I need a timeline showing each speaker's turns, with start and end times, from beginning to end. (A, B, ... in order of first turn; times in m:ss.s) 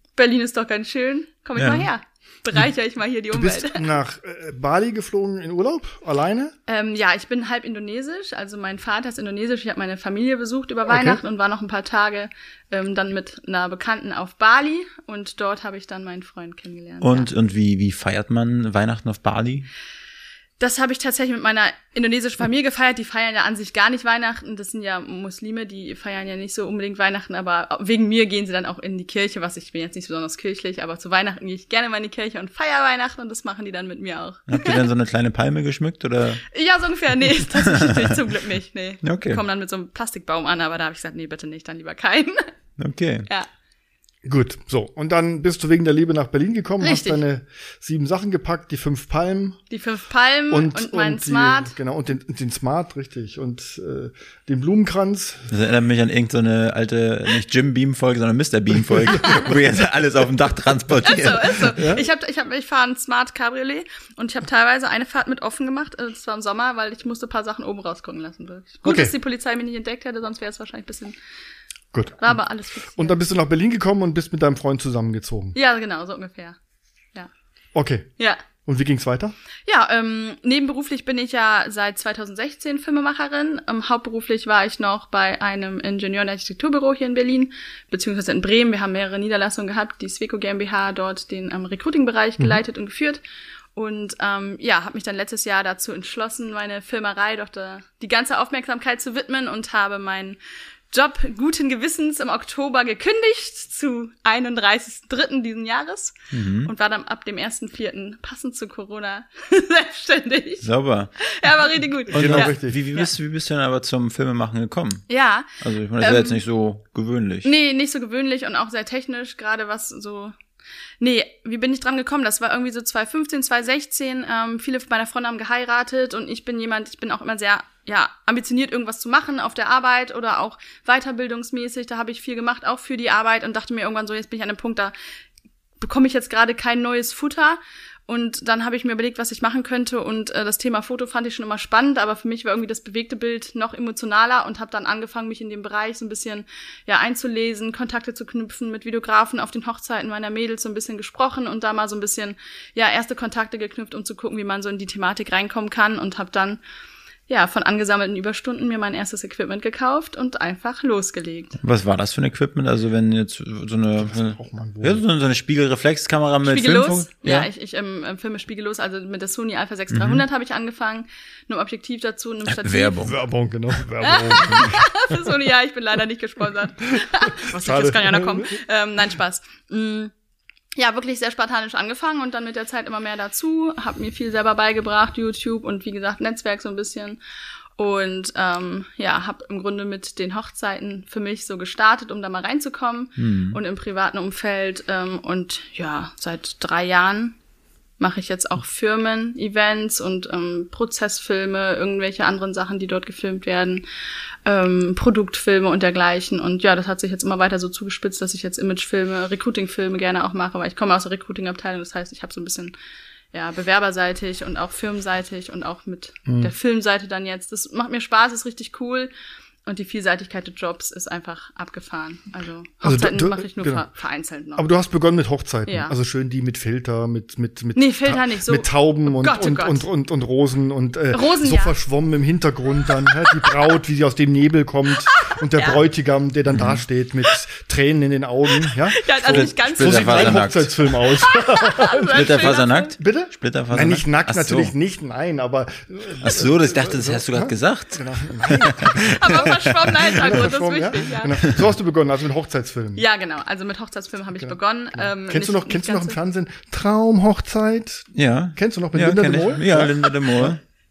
0:00.2-0:03.8 A
0:01.6-0:01.9 B
0:03.3-0:06.5 C
0:06.7-0:17.3 A
0:10.9-0:11.2 C
0:17.0-0:19.7 B
0:20.6-0:34.8 A
0:34.5-0:36.4 B
0:36.5-0:42.5 A
0:37.6-0:38.1 B
0:39.0-0:39.4 B
0:42.8-0:43.3 B
0:44.2-0:49.6 C
0:46.8-0:47.2 A
0:49.7-0:51.7 A
0:50.5-0:55.5 C
0:55.5-1:01.7 B
0:58.9-0:59.4 C
1:01.0-1:11.1 A
1:01.7-1:02.1 C
1:08.8-1:09.1 C
1:11.9-1:12.4 C
1:12.2-1:13.2 A
1:13.0-1:15.5 C
1:15.5-1:16.6 A
1:17.7-1:18.1 C
1:18.6-1:19.3 C
1:19.6-1:33.2 A
1:33.8-1:40.4 A
1:40.9-1:50.6 A
1:46.3-1:46.7 B
1:50.6-1:51.1 B
1:51.2-1:53.1 A
1:52.1-1:55.0 B
1:52.1-1:52.8 C
1:55.1-1:56.4 A
1:55.6-1:57.5 B
1:57.4-2:00.3 A
2:01.0-2:14.9 A
2:15.8-2:36.6 A
2:37.3-2:41.6 A
2:41.6-2:47.5 B
2:44.0-2:45.0 C
2:46.4-2:53.0 A
2:49.9-2:50.2 B
2:52.5-2:53.1 B
2:53.0-2:55.2 C
2:54.0-3:00.1 A
2:57.0-2:58.5 C
3:00.8-3:07.2 A
3:07.8-3:17.3 A
3:13.2-3:13.6 B
3:18.0-3:23.8 A
3:24.4-3:32.7 A
3:33.3-3:39.1 A
3:36.3-3:36.5 C
3:39.6-3:44.7 A
3:42.8-3:43.9 C
3:44.6-4:02.3 C
3:45.7-3:45.9 A
3:47.8-3:49.8 A
3:51.1-3:51.7 A
3:55.0-3:55.8 A
3:56.5-3:56.8 B
3:58.5-4:02.9 A
3:59.2-4:00.8 B
4:02.1-4:04.7 B
4:03.0-4:13.0 C
4:06.2-4:10.0 B
4:09.0-4:11.4 A
4:13.0-4:16.2 A
4:14.4-4:20.6 C
4:18.1-4:20.6 B